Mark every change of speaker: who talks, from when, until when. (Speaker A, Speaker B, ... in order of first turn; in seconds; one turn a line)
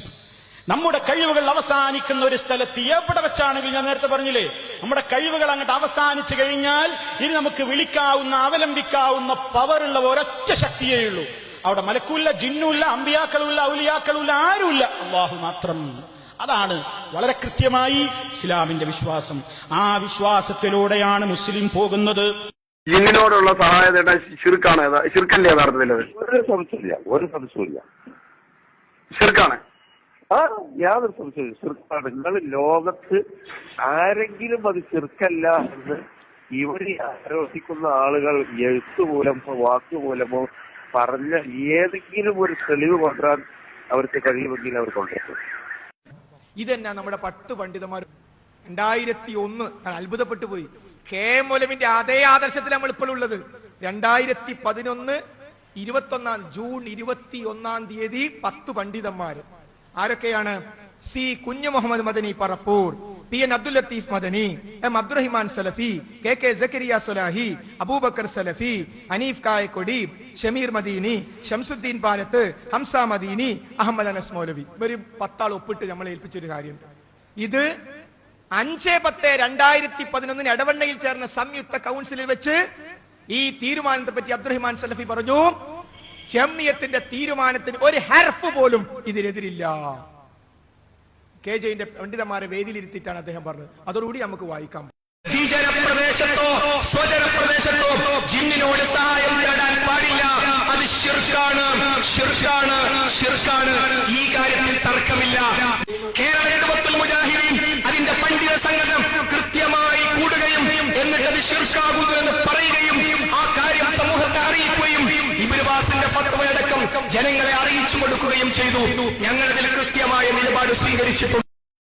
Speaker A: 0.7-22.3
Speaker B: 22.9-26.1
Speaker C: 26.1-27.8
Speaker B: 29.1-29.6
Speaker C: 30.3-33.2
Speaker C: 33.8-36.0
Speaker C: 36.5-45.4
Speaker D: 46.6-48.1
Speaker D: 48.7-55.2
Speaker D: 55.8-59.5
Speaker D: 60.0-60.6
Speaker D: 61.1-76.8
Speaker D: 77.4-77.7
Speaker D: 78.5-82.6
Speaker D: 83.3-85.5
Speaker D: 86.3-90.0
Speaker D: 91.4-94.9
Speaker E: 95.3-105.5
Speaker E: 106.1-121.5